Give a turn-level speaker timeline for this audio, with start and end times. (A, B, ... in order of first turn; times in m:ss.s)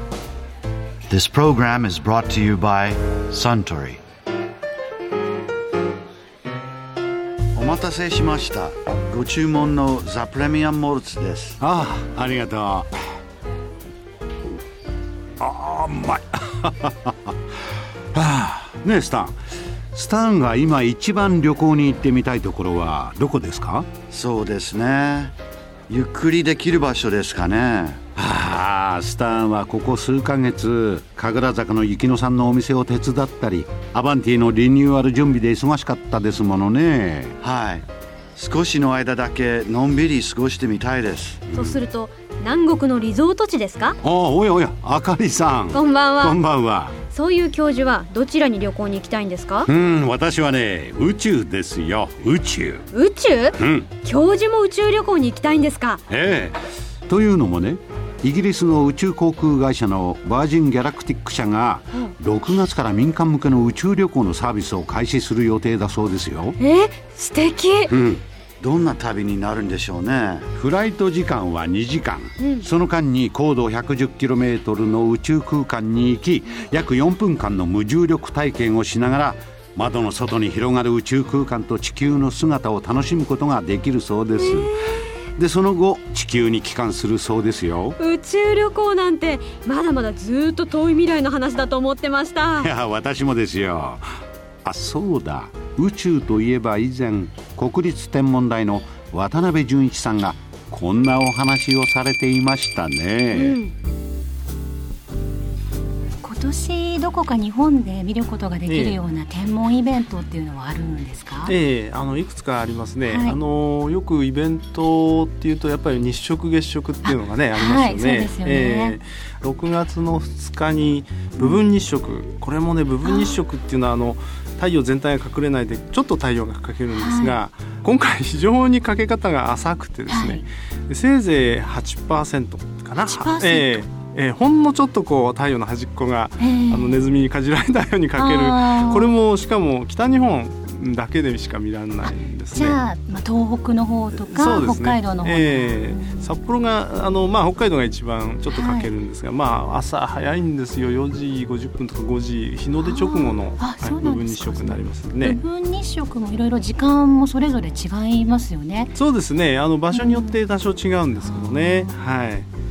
0:01.1-0:04.0 A
0:07.5-0:11.6 A
0:11.6-0:12.9 B
0:15.4-0:17.3 B
0:18.1-0:19.4 B
0:19.9-0:23.9 B
0:24.1-0:25.3 A
0:25.9-0:28.0 A
0:28.2-0:37.3 B
0:37.4-0:37.8 A
0:38.4-0:41.5 A
0:41.5-0:41.8 B
0:41.5-0:44.0 C
0:44.0-0:47.0 B
0:45.7-0:46.4 C
0:47.1-0:49.7 C
0:49.6-0:52.8 B
0:52.9-0:56.0 C
0:53.6-0:53.9 B
0:56.1-1:06.6 B
1:06.6-1:07.9 C
1:07.9-1:08.2 B
1:08.6-1:10.5 A
1:10.5-1:24.7 B
1:24.4-1:24.7 C
1:25.4-1:28.0 B
1:28.0-1:32.7 C
1:32.6-1:34.0 B
1:34.6-1:43.6 B
1:43.3-1:43.7 C
1:46.2-1:51.5 D
1:48.7-1:49.0 E
1:51.4-2:22.8 E
1:53.0-1:53.4 D
1:57.0-1:59.0 D
2:03.0-2:03.4 D
2:06.9-2:07.4 D
2:10.1-2:10.4 D
2:13.0-2:13.8 D
2:16.4-2:17.1 D
2:18.1-2:19.2 D
2:22.0-2:26.2 D
2:24.1-2:35.4 E
2:28.5-2:28.9 D
2:32.8-2:38.9 D
2:38.9-2:42.5 E
2:39.9-2:40.4 D
2:41.2-2:42.0 D